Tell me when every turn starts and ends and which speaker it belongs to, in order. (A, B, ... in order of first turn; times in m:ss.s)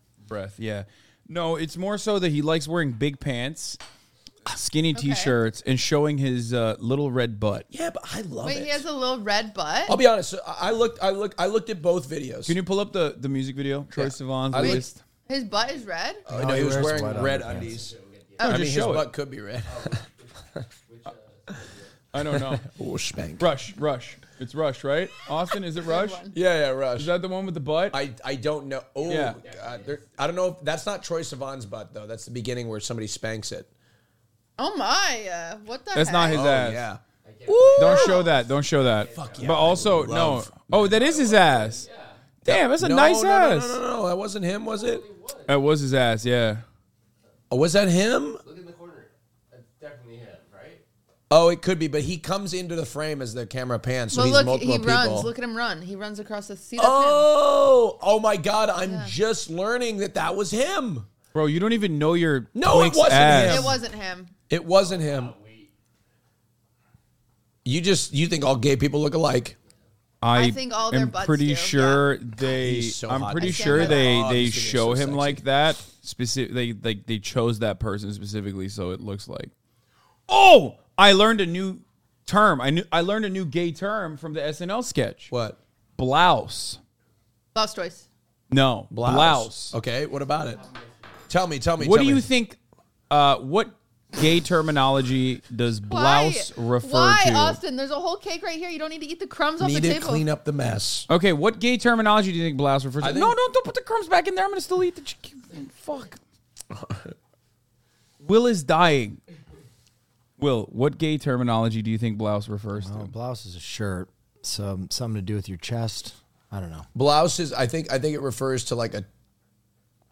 0:00.3-0:03.8 A
0:04.4-0:07.6 A
0:04.9-0:05.4 B
0:07.7-0:08.8 C
0:08.4-0:10.0 B
0:09.9-0:12.5 C
0:12.4-0:15.0 A
0:13.9-0:14.8 C
0:14.6-0:16.2 B
0:16.2-0:20.0 C
0:16.3-0:17.8 D
0:16.8-0:18.5 E
0:18.4-0:19.0 A
0:19.7-0:21.9 E
0:22.1-0:22.6 A
0:22.3-0:23.5 C
0:23.4-0:26.3 A
0:25.8-0:26.4 B
0:26.3-0:27.1 C
0:27.0-0:28.0 A
0:27.9-0:33.7 C
0:29.0-0:29.4 A
0:29.4-0:30.0 E
0:34.6-0:36.4 B
0:35.9-0:36.9 A
0:36.3-0:37.0 C
0:37.2-0:38.4 E
0:37.5-0:38.3 B
0:37.8-0:41.8 A
0:38.9-0:40.0 E
0:39.1-0:40.9 C
0:40.8-0:42.2 E
0:42.4-0:43.8 A
0:42.4-0:45.0 C
0:44.6-0:45.6 E
0:45.5-0:46.6 A
0:47.5-0:48.4 C
0:48.4-0:50.8 E
0:51.3-0:55.3 C
0:54.1-0:57.3 B
0:56.8-1:01.1 C
0:58.8-0:59.1 B
1:01.3-1:03.8 A
1:02.5-1:03.8 C
1:03.3-1:04.3 B
1:04.5-1:05.3 C
1:04.7-1:05.7 E
1:07.6-1:09.6 C
1:10.2-1:19.5 A
1:10.3-1:12.1 B
1:12.4-1:15.4 C
1:13.4-1:14.2 B
1:20.3-1:25.3 A
1:25.3-1:25.6 C
1:26.0-1:26.8 A
1:27.5-1:28.0 B
1:28.5-1:29.7 A
1:28.9-1:30.6 C
1:30.5-1:31.2 E
1:31.3-1:32.3 C
1:31.8-1:32.6 A
1:33.1-1:37.6 A
1:35.9-1:40.2 B
1:39.6-1:41.1 C
1:41.1-1:46.2 A
1:43.0-1:43.4 C
1:46.7-1:47.1 C
1:48.2-1:49.2 A
1:50.4-1:53.1 A
1:52.8-1:56.9 D
1:56.9-1:59.0 C